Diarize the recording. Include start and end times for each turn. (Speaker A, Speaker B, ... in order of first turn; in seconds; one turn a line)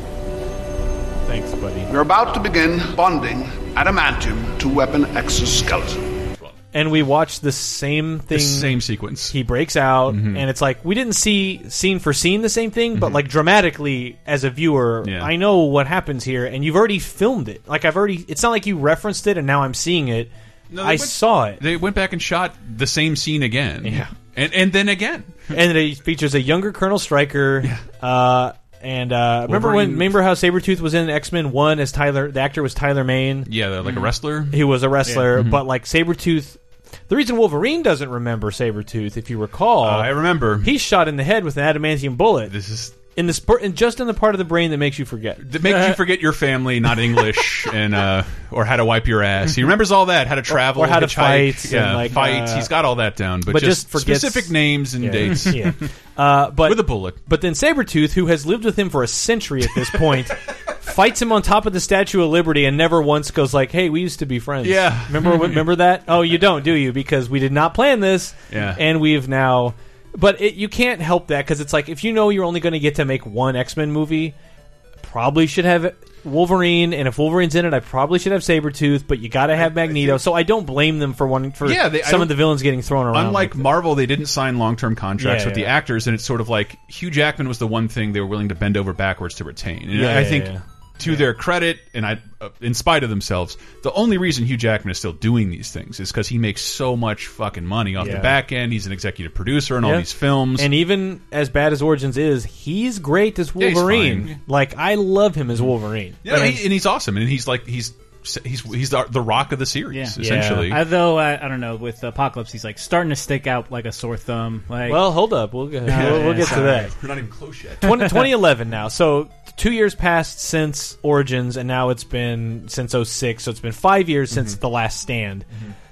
Speaker A: 1.2-1.9
Speaker B: 1.9-6.1
Speaker A: 6.7-8.8
Speaker C: 8.3-9.4
Speaker A: 9.3-21.6
Speaker C: 10.1-10.4
Speaker C: 12.9-13.2
Speaker C: 15.0-15.3
Speaker C: 20.7-25.5
Speaker A: 23.8-24.1
Speaker A: 25.5-33.5
Speaker C: 29.5-30.2
Speaker C: 33.5-34.6
Speaker A: 34.5-42.5
Speaker C: 35.3-35.6
Speaker C: 39.8-40.7
Speaker C: 42.5-43.0
Speaker A: 43.1-45.5
Speaker C: 45.4-55.7
Speaker A: 50.5-52.7
Speaker A: 53.5-74.3
Speaker C: 56.6-57.2
Speaker C: 64.6-65.6
Speaker C: 68.5-68.8
Speaker A: 75.0-83.7
Speaker C: 79.6-80.2
Speaker C: 81.6-82.5
Speaker C: 83.1-100.7
Speaker A: 85.2-85.7
Speaker A: 89.9-91.2
Speaker A: 98.0-98.3
Speaker A: 99.8-106.6
Speaker C: 103.6-104.3
Speaker C: 106.2-110.8
Speaker D: 109.9-115.0
Speaker A: 110.2-110.7
Speaker A: 114.9-116.9
Speaker D: 115.9-116.8
Speaker C: 115.9-118.0
Speaker A: 117.8-125.5
Speaker C: 124.3-124.6